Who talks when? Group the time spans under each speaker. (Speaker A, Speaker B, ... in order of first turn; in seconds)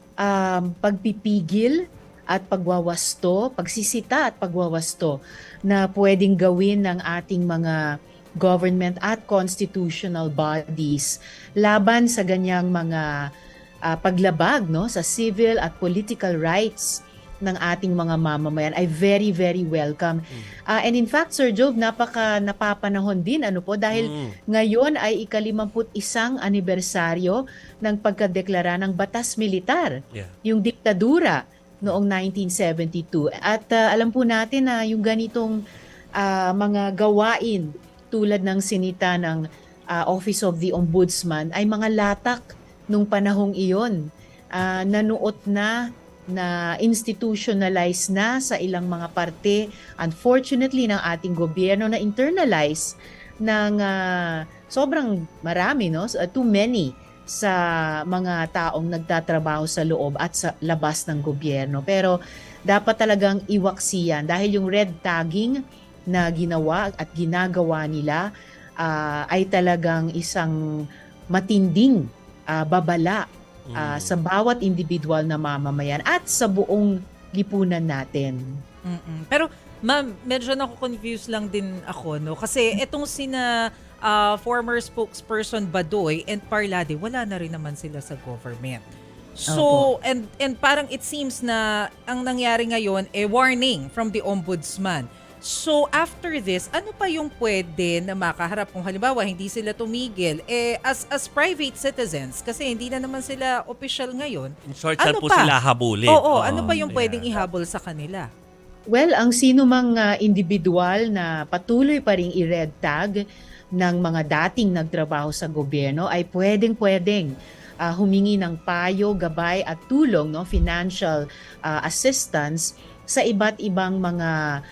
Speaker A: 0.2-1.8, 2.3-7.8, 8.4-13.1, 13.9-35.5, 36.2-39.4, 39.9-44.0, 44.5-45.8, 46.3-57.6, 58.1-62.1, 62.7-65.5, 66.1-68.2, 68.8-70.5, 71.3-78.5, 89.5-89.9, 108.9-113.1, 113.8-117.3, 117.8-124.3
Speaker B: 23.9-24.4, 73.7-74.2, 104.7-107.4
Speaker C: 78.9-83.5, 84.0-88.8, 89.5-105.5, 106.1-108.3